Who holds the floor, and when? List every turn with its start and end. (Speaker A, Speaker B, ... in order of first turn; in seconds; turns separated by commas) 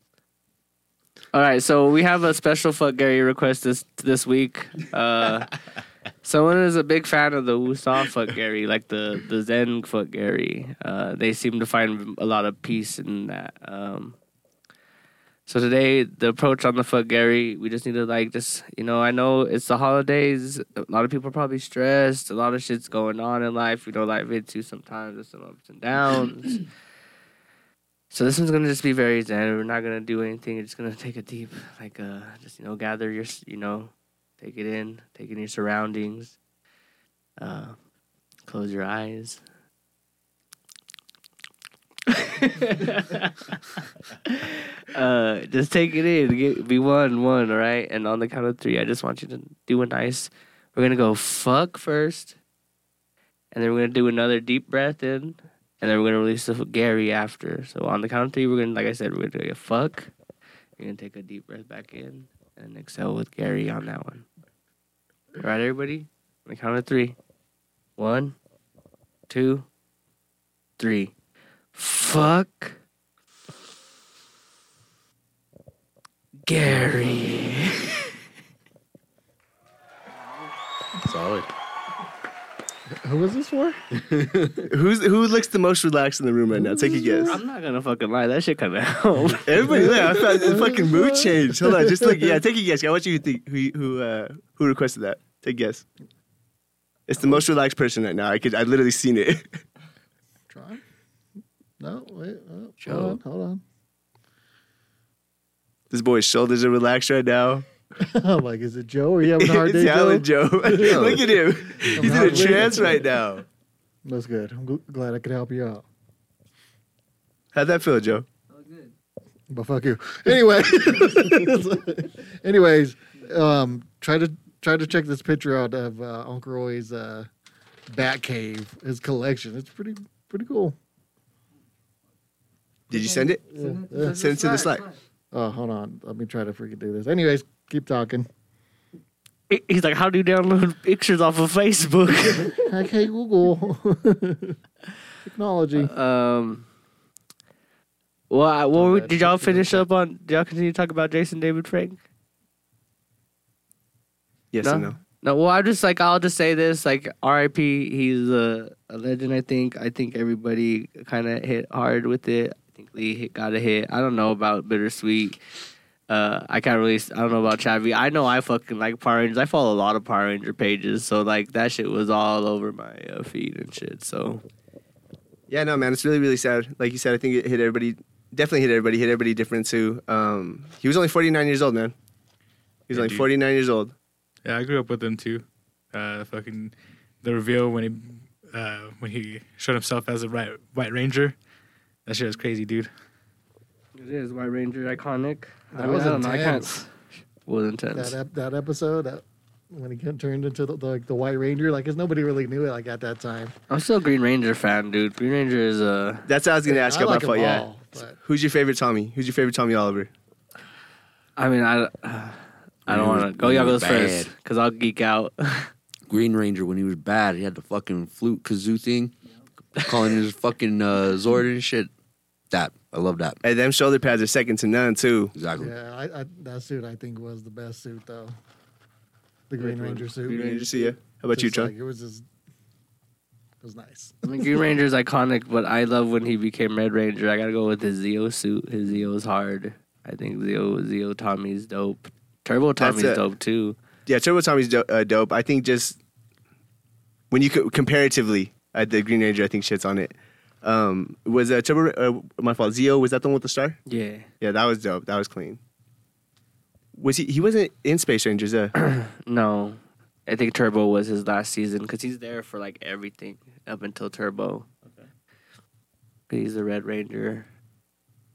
Speaker A: 1.3-5.5, Speaker A: 6.2-14.2, Speaker A: 15.5-26.6, Speaker A: 28.1-36.4, Speaker A: 37.4-37.8, Speaker A: 38.5-39.4, Speaker A: 42.1-52.4, Speaker A: 53.5-60.1, Speaker A: 60.8-64.3, Speaker A: 65.4-67.2, Speaker A: 68.0-68.4, Speaker A: 69.3-69.7, Speaker A: 70.8-71.1, Speaker A: 71.7-72.8, Speaker A: 76.5-78.1, Speaker B: 81.0-81.5, Speaker C: 82.9-83.8, Speaker B: 84.0-84.7, Speaker D: 84.7-87.4, Speaker C: 86.5-87.4, Speaker A: 87.3-89.6, Speaker D: 89.5-95.8, Speaker C: 89.7-92.4, Speaker D: 97.1-99.6, Speaker C: 97.2-97.4, Speaker C: 100.5-100.8, Speaker C: 101.8-103.6, Speaker B: 102.8-103.2, Speaker D: 105.9-107.7, Speaker C: 108.0-113.1, Speaker D: 109.2-113.4, Speaker B: 110.8-111.3, Speaker B: 112.0-112.5, Speaker C: 114.0-115.8, Speaker D: 117.5-118.3, Speaker E: 118.5-118.9, Speaker C: 119.5-127.3, Speaker C: 127.9-130.8, Speaker D: 132.9-133.4, Speaker E: 133.0-135.0, Speaker C: 133.5-134.2, Speaker D: 134.0-134.9, Speaker C: 135.3-138.3, Speaker A: 139.5-142.6, Speaker C: 142.5-144.6, Speaker C: 145.2-145.9, Speaker A: 145.8-146.7, Speaker A: 148.3-152.0, Speaker C: 148.7-149.9, Speaker D: 154.5-155.0, Speaker A: 154.6-165.4, Speaker A: 166.1-174.4, Speaker D: 175.5-181.9, Speaker D: 182.9-183.9, Speaker F: 182.9-183.3, Speaker F: 184.4-191.4, Speaker F: 192.1-192.9, Speaker A: 194.0-196.9, Speaker C: 195.7-196.7, Speaker A: 197.5-198.2, Speaker C: 197.9-203.6, Speaker A: 203.7-206.3, Speaker D: 206.3-210.1, Speaker C: 206.7-208.2, Speaker A: 211.4-215.7, Speaker B: 212.9-214.3, Speaker B: 216.1-219.1, Speaker B: 219.8-221.9, Speaker B: 222.5-223.4, Speaker D: 223.4-225.3, Speaker B: 225.3-225.7, Speaker C: 225.6-228.3, Speaker C: 229.5-230.7, Speaker A: 229.6-230.9, Speaker D: 230.2-231.7, Speaker C: 231.3-232.2, Speaker C: 233.6-234.6, Speaker A: 234.2-243.8, Speaker D: 242.8-243.2, Speaker D: 244.1-246.0, Speaker D: 247.3-253.8, Speaker A: 253.9-254.3, Speaker D: 254.4-255.6, Speaker D: 257.0-258.7, Speaker A: 258.8-264.8, Speaker A: 266.3-267.5